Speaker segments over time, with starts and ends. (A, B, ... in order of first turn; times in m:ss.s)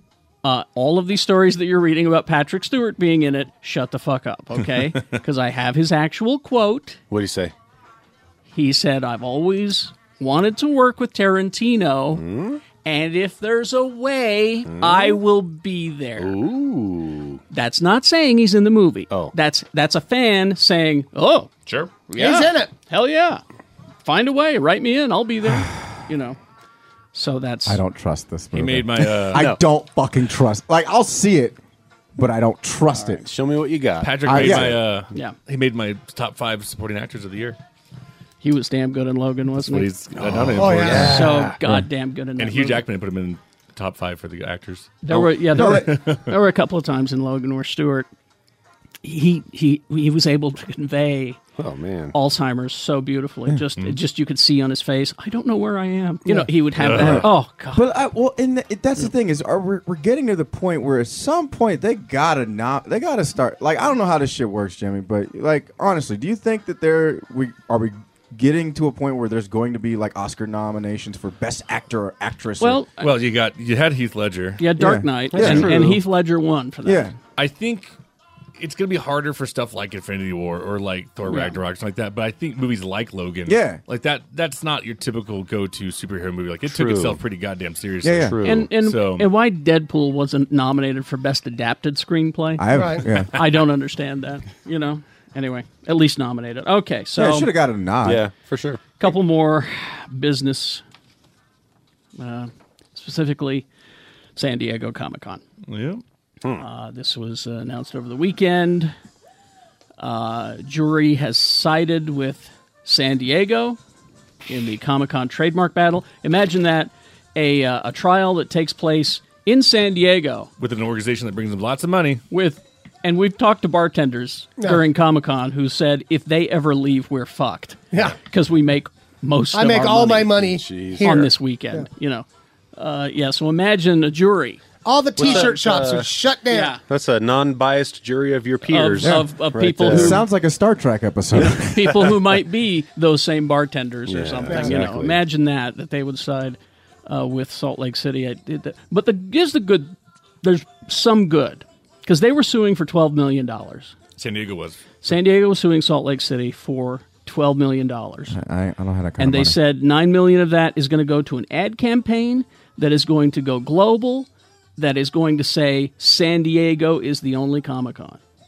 0:00.4-0:07.0 A
0:07.1-0:07.5 B
0:08.5-0:16.4 A
0:12.1-0:12.6 B
0:14.7-0:15.2 B
0:16.2-0:17.4 B
0:17.5-0:21.5 A
0:19.1-0:19.4 B
0:22.1-0:23.4 A
0:22.2-0:22.7 C
0:24.0-0:26.4 A
0:27.1-0:27.8 A
0:27.7-0:31.6 D
0:28.5-0:29.5 E
0:29.3-0:29.6 B
0:32.2-0:33.2 D
0:32.9-0:33.2 A
0:33.2-0:34.8 B
0:34.0-0:37.6 E
0:34.2-0:34.8 D
0:38.4-0:40.0 A
0:39.6-0:41.1 E
0:40.2-0:41.6 B
0:40.6-0:41.2 C
0:41.0-0:42.8 A
0:42.4-0:46.3 E
0:45.0-0:48.1 A
0:45.1-0:46.0 D
0:49.0-0:51.4 A
0:51.6-0:52.2 B
0:52.1-0:57.9 A
0:56.3-1:12.8 D
0:56.8-0:57.2 E
1:12.6-1:13.1 A
1:13.0-1:14.6 E
1:14.6-1:17.1 A
1:14.8-1:16.0 D
1:15.3-1:16.0 B
1:16.8-1:17.2 D
1:17.4-1:17.9 E
1:18.6-1:29.3 E
1:21.2-1:21.6 A
1:23.5-1:23.8 D
1:26.7-1:27.2 B
1:28.0-1:28.4 D
1:28.1-1:28.7 B
1:28.4-1:37.5 A
1:32.6-1:33.4 D
1:32.7-1:33.1 C
1:37.2-1:38.3 D
1:38.0-1:38.8 B
1:39.0-1:40.8 A
1:42.2-1:43.7 A
1:44.4-1:45.4 A
1:45.7-1:46.0 E
1:46.6-1:48.9 A
1:50.0-1:53.8 A
1:54.5-2:00.5 A
2:00.6-2:02.2 E
2:02.3-2:14.6 A
2:04.6-2:04.8 C
2:07.9-2:08.2 C
2:09.5-2:11.9 C
2:10.4-2:11.1 B
2:14.8-2:16.8 C
2:15.2-2:15.8 A
2:15.2-2:16.1 B
2:16.5-2:16.8 A
2:16.9-2:20.2 B
2:18.6-2:20.3 A
2:19.0-2:19.3 D
2:19.8-2:21.7 D
2:21.4-2:34.0 A
2:24.1-2:25.2 B
2:24.5-2:24.8 C
2:34.2-2:35.1 E
2:35.0-2:38.4 A
2:38.3-2:39.6 D
2:39.2-2:48.2 A